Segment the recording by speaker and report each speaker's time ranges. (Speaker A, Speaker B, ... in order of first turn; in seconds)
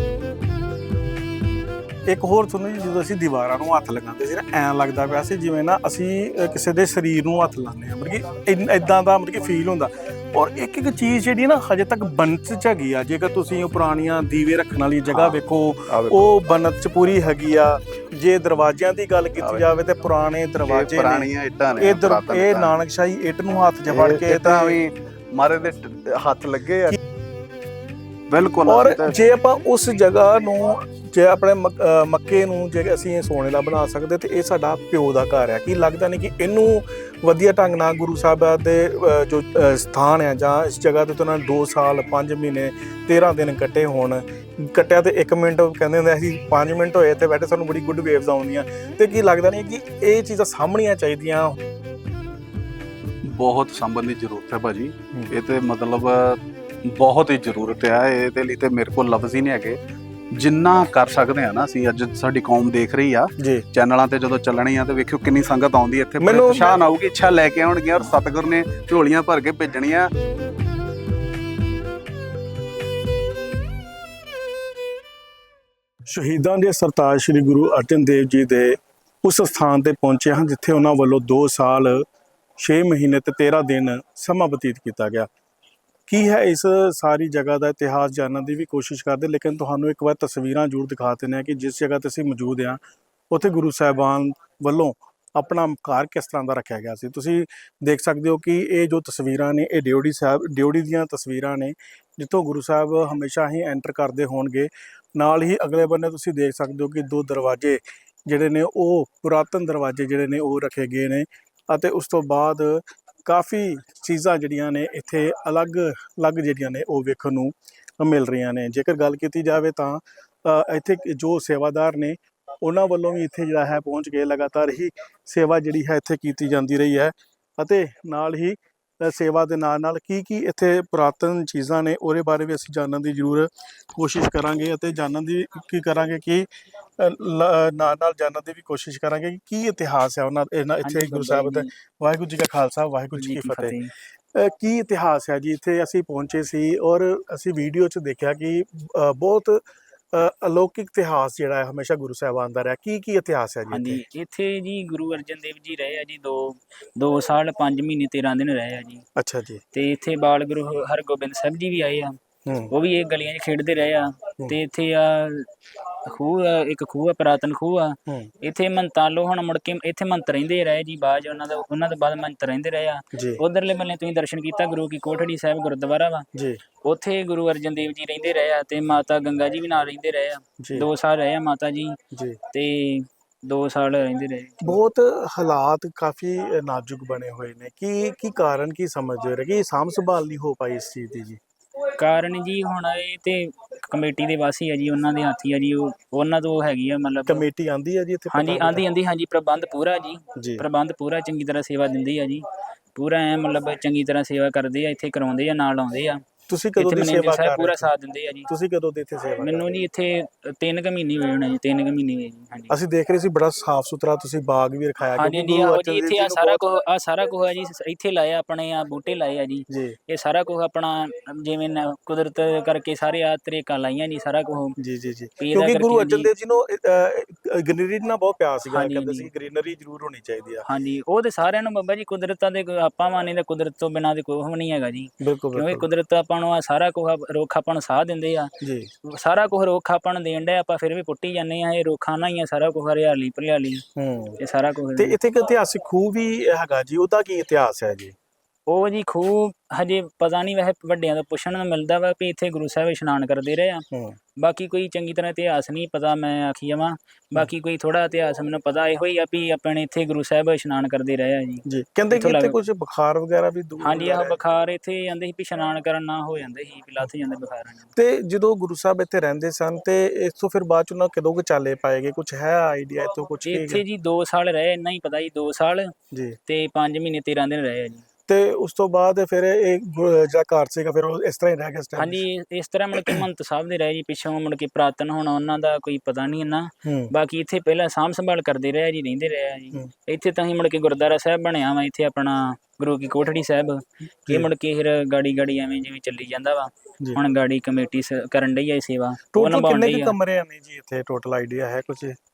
Speaker A: 2.1-24.8, 28.7-51.6, 63.4-63.7, 66.2-66.8, 76.1-82.0, 82.6-85.3, 86.1-136.5, 137.0-143.8, 144.3-154.0, 159.2-159.6, 162.4-162.7, 168.1-168.3, 173.1-173.4, 176.3-176.6, 180.6-180.9, 182.1-182.4, 184.6-191.4, 197.2-198.9, 200.4-200.7, 206.5-207.9, 208.5-209.9, 212.7-216.6, 219.7-220.0, 224.8-230.7, 235.2-235.9, 238.6-238.9, 244.0-244.4, 244.9-248.2, 253.9-254.2, 261.7-264.4, 267.9-273.8, 276.1-276.4, 278.3-282.2, 282.9-283.2, 286.9-287.1, 299.3-302.2
Speaker B: 15.1-15.4, 15.9-16.3, 19.4-19.7, 20.6-22.7, 23.9-27.0, 28.3-29.1, 53.2-59.8, 60.4-70.1
Speaker C: 140.8-141.7, 143.2-143.9, 153.7-159.0, 159.7-162.2, 162.7-165.5, 166.1-176.2, 176.8-181.9, 182.5-184.8, 192.0-197.4, 198.3-202.4, 202.9-206.2, 206.8-208.5, 209.4-212.7, 215.2-224.7, 225.4-226.3, 228.7-229.3, 230.7-238.5, 239.1-243.8, 244.4-245.2, 248.7-253.8, 254.4-262.6, 263.8-267.9, 273.4-275.9, 276.5-278.0, 282.0-300.2